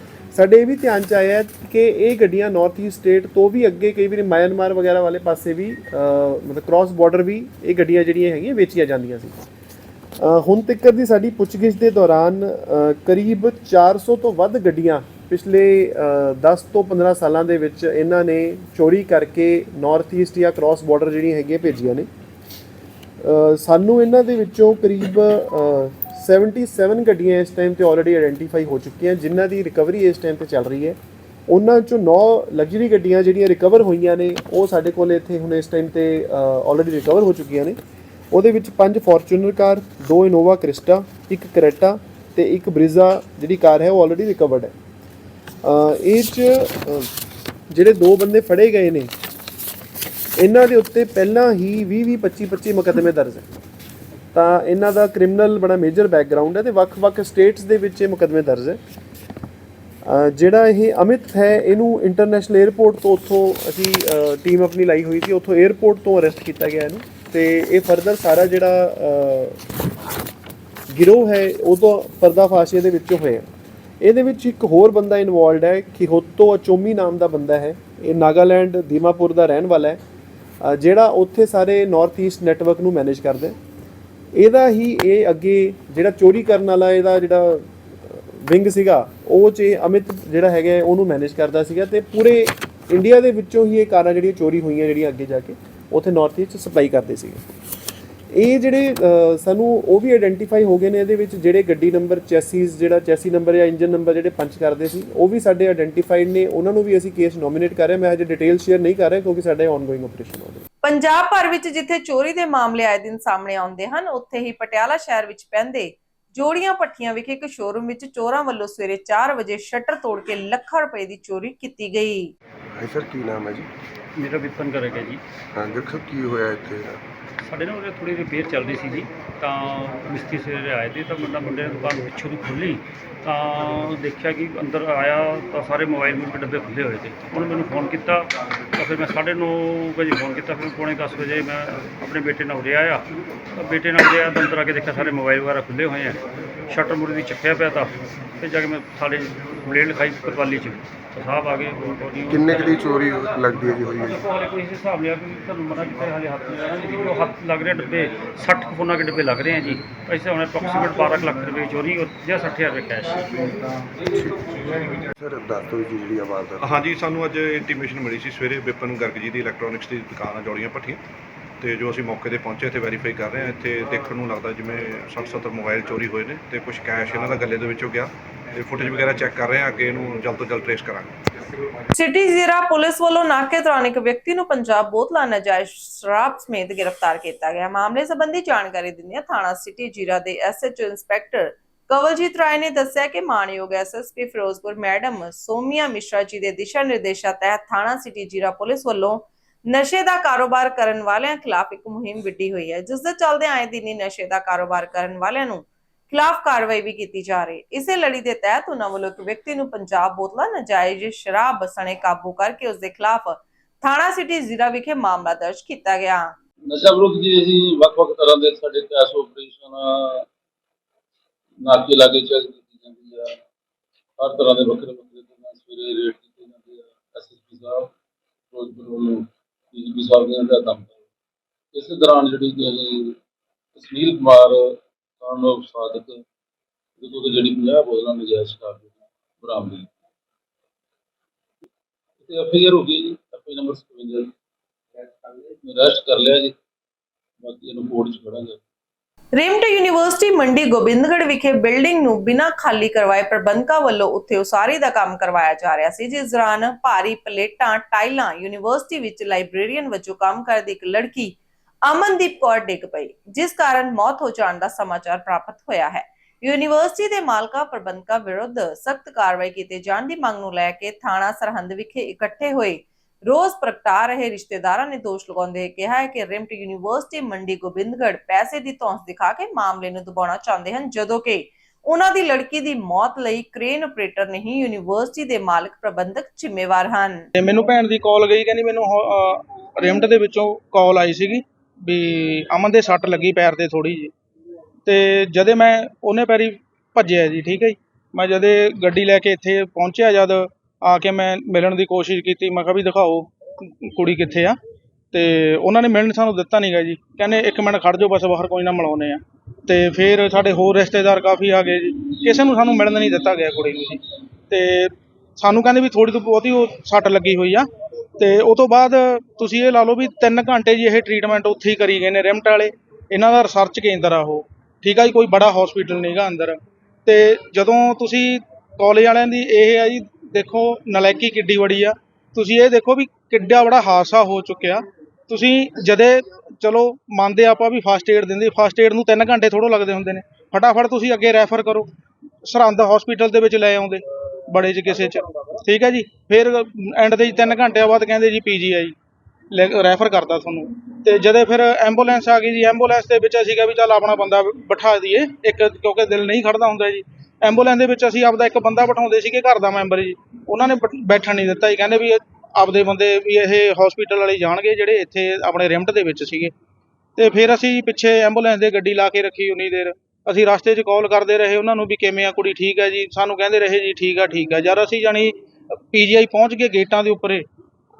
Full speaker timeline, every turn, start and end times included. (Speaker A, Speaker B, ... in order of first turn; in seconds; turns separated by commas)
Speaker A: 0.3-9.4, Speaker A: 10.2-22.1, Speaker A: 23.2-37.8, Speaker A: 38.3-44.7, Speaker A: 45.6-47.1, Speaker A: 47.7-49.1, Speaker A: 50.4-53.5, Speaker A: 54.3-58.8, Speaker A: 60.0-69.6, Speaker A: 70.9-73.5, Speaker A: 74.0-80.0, Speaker A: 80.6-83.6, Speaker A: 84.3-97.4, Speaker A: 98.3-110.6, Speaker B: 110.8-122.3, Speaker C: 122.8-123.7, Speaker D: 124.2-125.2, Speaker C: 125.6-127.0, Speaker D: 127.5-152.9, Speaker C: 152.3-154.2, Speaker D: 154.0-163.4, Speaker C: 165.2-166.5, Speaker E: 166.6-171.0, Speaker E: 171.6-181.2, Speaker B: 181.9-216.3, Speaker F: 216.7-220.3, Speaker F: 221.6-223.4, Speaker F: 224.2-227.9, Speaker F: 228.5-231.0, Speaker F: 231.7-233.2, Speaker F: 233.8-236.2, Speaker F: 237.0-239.9, Speaker F: 242.2-244.3, Speaker F: 245.6-246.6, Speaker F: 247.4-248.6, Speaker B: 249.3-287.3, Speaker G: 287.4-294.1, Speaker G: 294.9-304.6, Speaker G: 305.1-317.7, Speaker G: 318.2-341.9, Speaker G: 342.4-348.9, Speaker G: 349.5-366.5, Speaker G: 367.2-375.4, Speaker G: 375.9-377.5